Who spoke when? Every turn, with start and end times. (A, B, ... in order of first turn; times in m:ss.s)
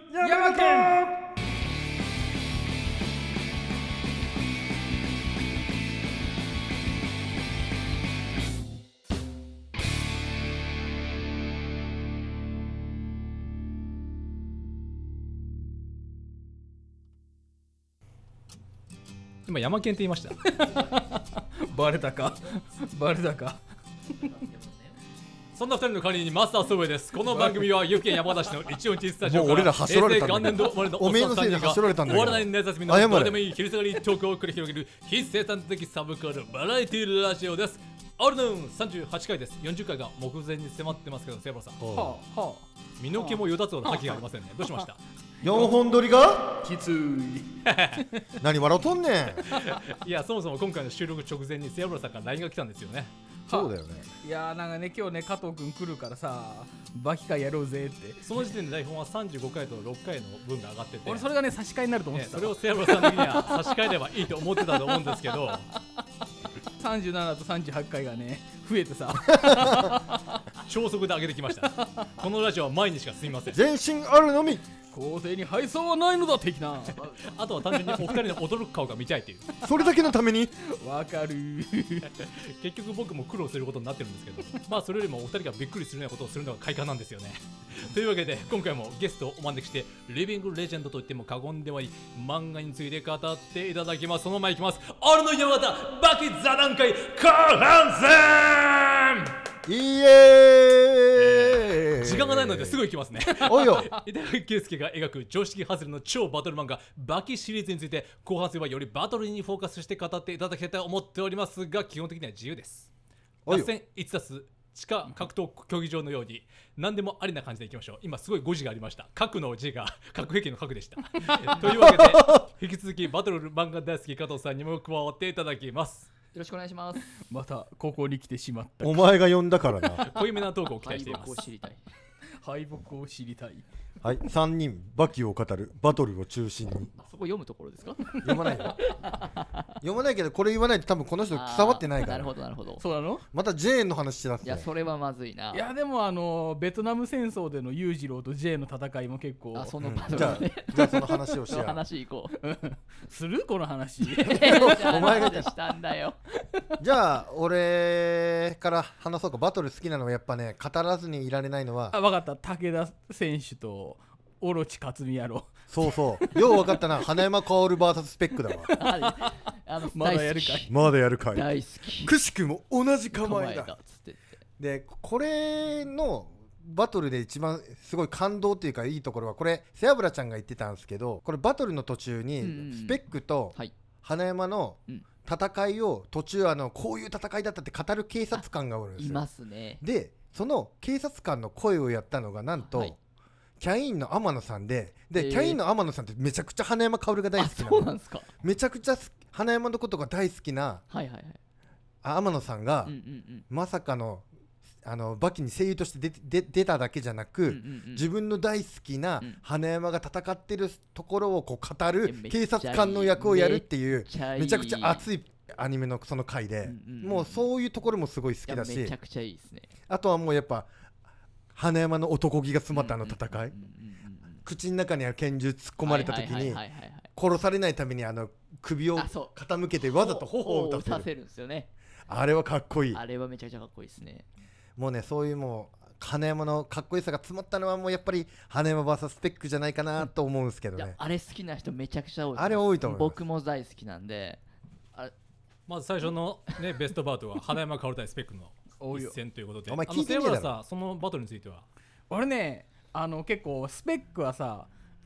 0:00.1-0:01.1 A
0:00.2-0:01.1 B
0:19.5-0:20.4 C
0:20.5-0:23.6 B
0:25.6-0:41.8 C
0:27.2-0:27.7 B
0:29.2-0:33.4 A
0:41.8-0:42.2 A
0:41.9-0:44.9 B
0:43.0-0:45.0 C
0:45.4-0:46.5 A
0:46.6-0:48.3 B
0:47.7-0:48.0 C
0:48.4-0:49.5 A
0:49.5-0:53.1 C
0:53.5-0:54.1 A
0:53.5-0:58.5 B
0:58.2-1:01.3 C
1:01.0-1:03.9 B
1:02.1-1:05.7 C
1:04.7-1:05.2 B
1:06.8-1:10.4 B
1:09.4-1:09.9 A
1:10.6-1:13.6 C
1:13.5-1:14.6 A
1:14.9-1:17.0 B
1:16.9-1:17.3 D
1:17.2-1:19.5 C
1:17.6-1:18.2 B
1:19.6-1:20.5 A
1:20.6-1:22.1 B
1:22.1-1:39.3 C
1:39.7-1:42.8 A
1:41.2-1:52.9 C
1:43.4-1:43.9 A
1:53.5-1:53.7 A
1:53.5-2:06.1 C
2:01.7-2:02.4 A
2:06.3-2:07.1 D
2:07.2-2:09.1 B
2:08.8-2:10.0 A
2:10.0-2:11.5 C
2:10.7-2:11.8 D
2:12.4-2:13.6 B
2:14.0-2:16.9 A
2:17.0-2:18.1 D
2:18.2-2:18.9 A
2:18.3-2:18.6 B
2:18.9-2:19.6 D
2:19.8-2:22.3 A
2:21.3-2:22.8 D
2:22.8-2:23.2 B
2:23.3-2:24.7 A
2:24.4-2:25.7 D
2:25.5-2:30.4 B
2:29.5-2:32.3 D
2:29.8-2:31.8 A
2:32.3-2:35.4 B
2:34.0-2:36.2 D
2:34.4-2:35.5 A
2:36.8-2:42.0 A
2:41.9-2:47.2 B
2:45.7-2:48.7 A
2:48.5-2:49.3 B
2:48.7-2:50.7 D
2:49.9-2:50.7 B
2:50.7-2:53.8 A
2:51.3-2:52.1 D
2:53.1-2:54.4 D
2:54.6-3:09.3 A
3:02.4-3:03.0 D
3:09.0-3:09.8 D
3:09.8-3:13.0 A
3:12.6-3:12.9 D
3:13.6-3:20.8 A
3:15.2-3:15.6 D
3:17.4-3:18.3 D
3:20.9-3:21.4 D
3:22.0-3:23.0 A
3:22.9-3:23.4 D
3:23.5-3:24.3 A
3:24.8-3:39.0 A
3:27.5-3:28.1 D
3:32.0-3:35.0 D
3:36.6-3:37.4 D
3:38.5-3:39.7 D
3:39.9-3:40.7 A
3:41.5-3:43.6 A
3:42.7-3:44.4 D
3:44.4-3:46.6 A
3:45.8-3:47.1 D
3:47.2-3:51.1 A
3:49.0-3:51.7 D
3:52.1-3:53.0 A
3:52.9-3:54.3 D
3:54.8-4:01.0 A
4:00.8-4:04.4 D
4:02.4-4:03.2 A
4:05.7-4:11.6 C
4:08.8-4:09.2 B
4:09.7-4:10.6 A
4:12.1-4:14.7 B